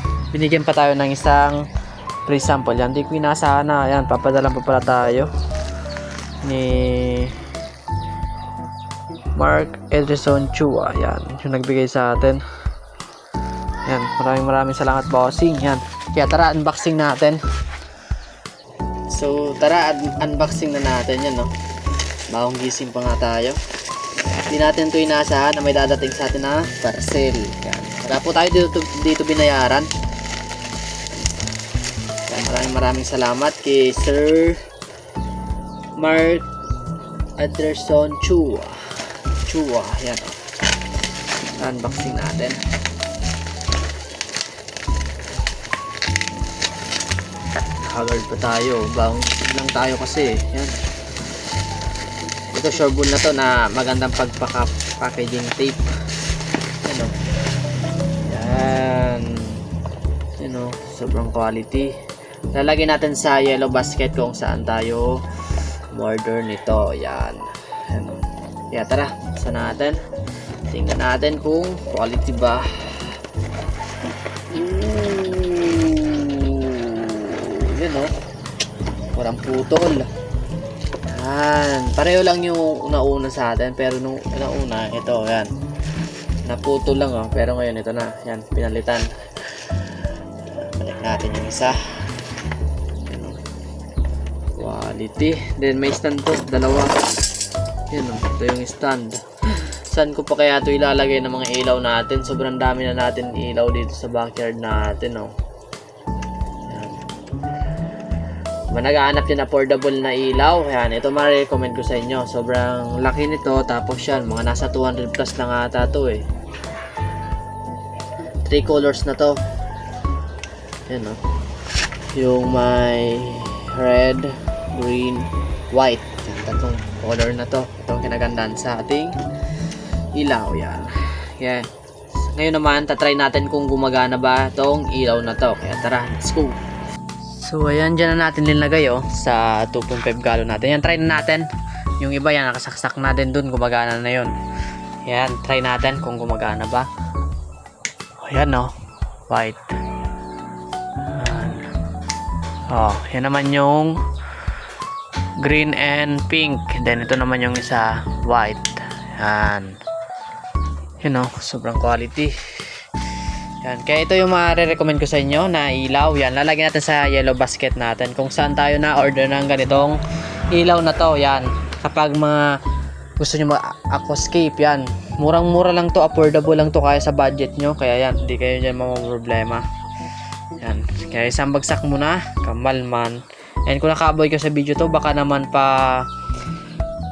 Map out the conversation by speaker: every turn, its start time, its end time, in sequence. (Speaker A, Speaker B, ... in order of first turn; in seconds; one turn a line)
Speaker A: 0.3-1.7
Speaker A: 2.3-5.3
Speaker A: 6.4-7.4
Speaker A: 9.4-12.4
Speaker A: 13.9-17.4
Speaker A: 19.1-21.5
Speaker A: 22.3-23.6
Speaker A: 24.3-29.9
Speaker A: 32.3-34.6
Speaker A: 36.0-36.5
Speaker A: 37.4-40.4
Speaker A: 41.6-42.6
Speaker A: 47.8-50.8
Speaker A: 52.5-55.9
Speaker A: 56.8-57.1
Speaker A: 58.3-59.6
Speaker A: 60.4-61.9
Speaker A: 62.5-65.2
Speaker A: 65.9-70.0
Speaker A: 70.7-73.2
Speaker A: 74.5-78.1
Speaker A: 79.2-80.1
Speaker A: 81.0-85.5
Speaker A: 86.5-89.9
Speaker A: 90.4-91.8
Speaker A: 93.1-93.4
Speaker A: 94.5-96.9
Speaker A: 97.9-105.3
Speaker A: 106.7-107.0
Speaker A: 108.7-116.2
Speaker A: 118.5-119.4
Speaker A: 120.9-121.2
Speaker A: 122.1-129.2
Speaker A: 130.2-131.7
Speaker A: 132.3-136.6
Speaker A: 137.4-141.5
Speaker A: 142.0-144.3
Speaker A: 145.0-146.9
Speaker A: 148.2-148.7
Speaker A: 149.3-149.8
Speaker A: 151.1-151.7
Speaker A: 152.7-154.0
Speaker A: 155.4-159.8
Speaker A: 161.0-162.3
Speaker A: 163.6-170.0
Speaker A: 170.5-172.6
Speaker A: 173.2-179.6
Speaker A: 180.6-186.1